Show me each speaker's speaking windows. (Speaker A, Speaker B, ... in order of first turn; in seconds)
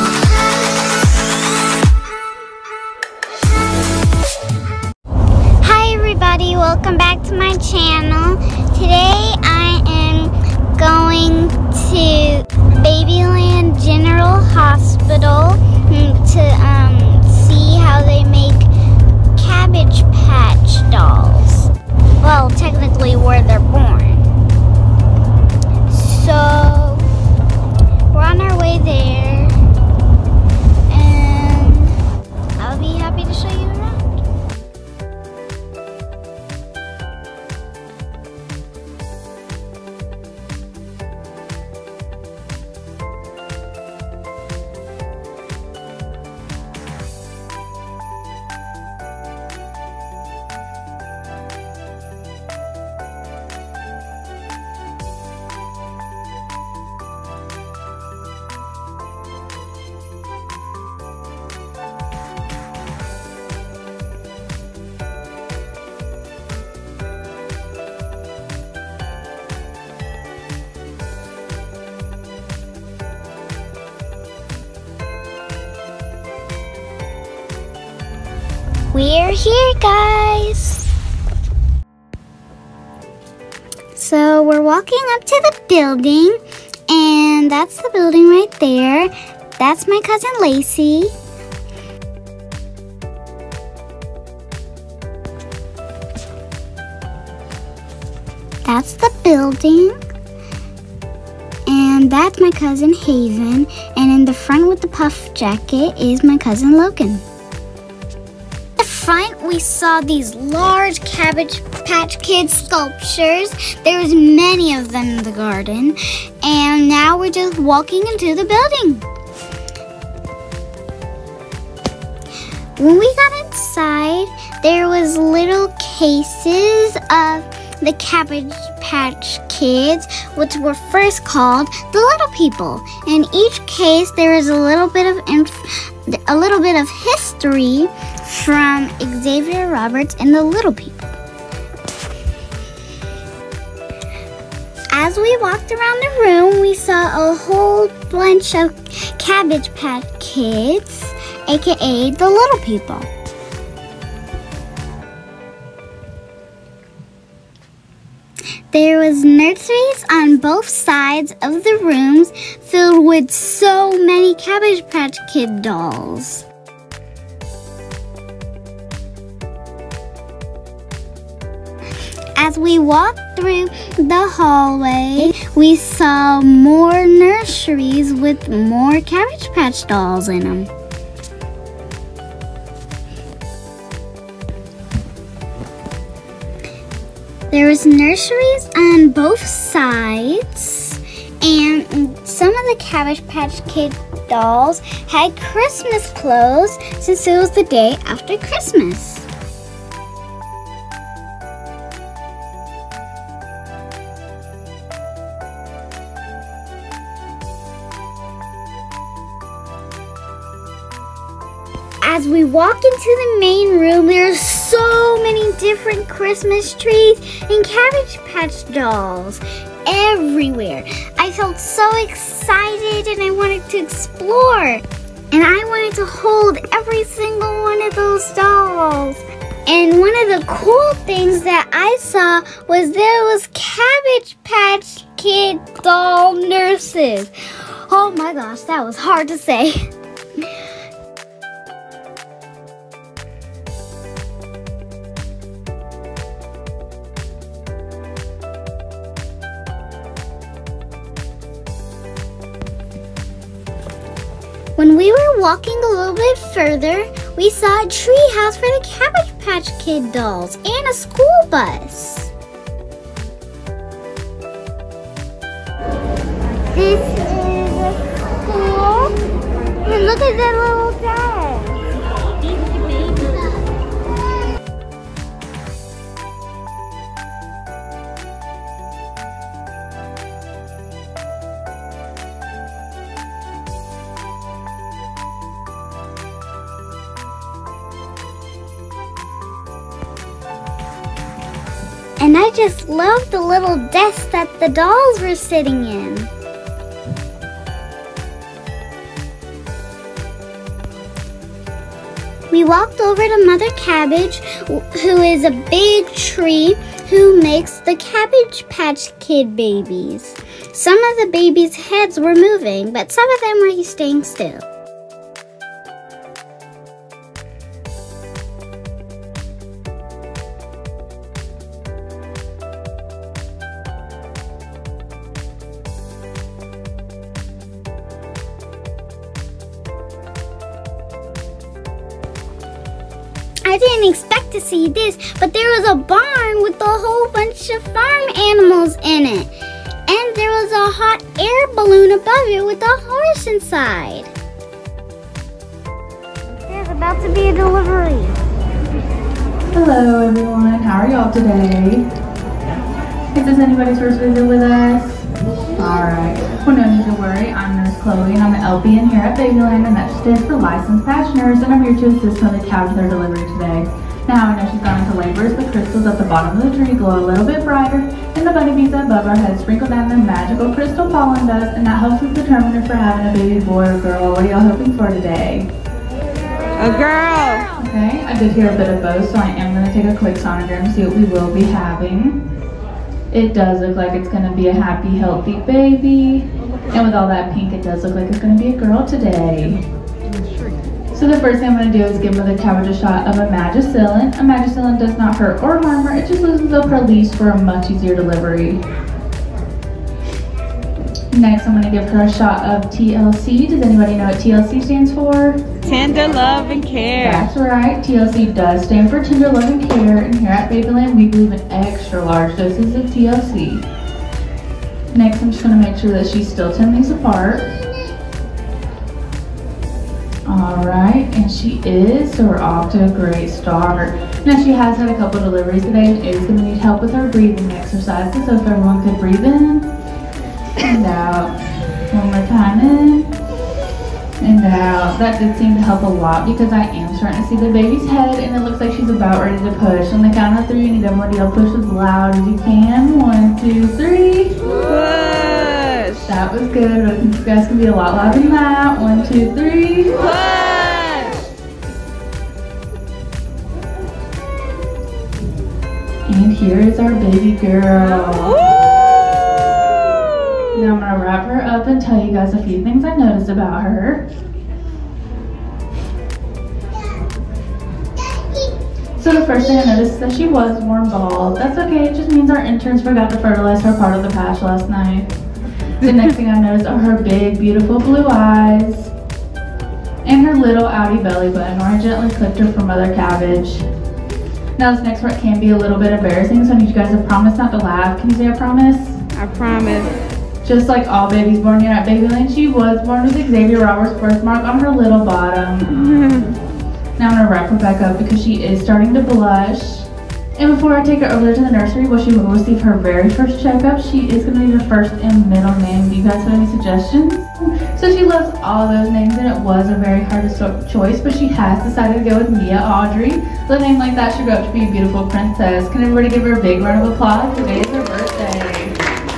Speaker A: 5.6-18.7, 19.4-24.3, 25.9-27.1, 28.1-29.6, 30.9-31.9, 32.6-34.0, 78.9-80.9, 84.0-91.1, 98.7-100.0, 101.7-107.2, 108.8-119.0, 122.8-141.1, 144.9-153.1, 158.7-166.5, 172.4-180.7, 187.5-199.3, 212.0-239.8, 254.8-262.3, 266.7-269.1, 269.9-271.9, 292.2-296.3, 302.5-314.6, 333.6-339.5, 340.1-344.3, 346.7-348.4, 468.3-468.7, 469.5-470.0
Speaker B: 349.7-352.1, 353.3-375.7, 377.8-382.4, 383.3-389.8, 391.1-398.8, 401.3-405.6, 407.2-413.9, 415.1-417.7, 420.5-429.9, 430.8-431.5, 432.1-433.3, 434.4-444.7, 446.3-450.4, 456.3-458.6, 460.7-464.2, 469.2-475.3, 476.0-479.1, 480.2-483.8, 484.8-489.2, 490.6-496.0, 497.2-519.0
Speaker C: 376.8-377.7, 405.8-407.5, 444.8-446.3, 450.5-451.4, 458.6-460.6, 489.4-490.1, 496.0-496.6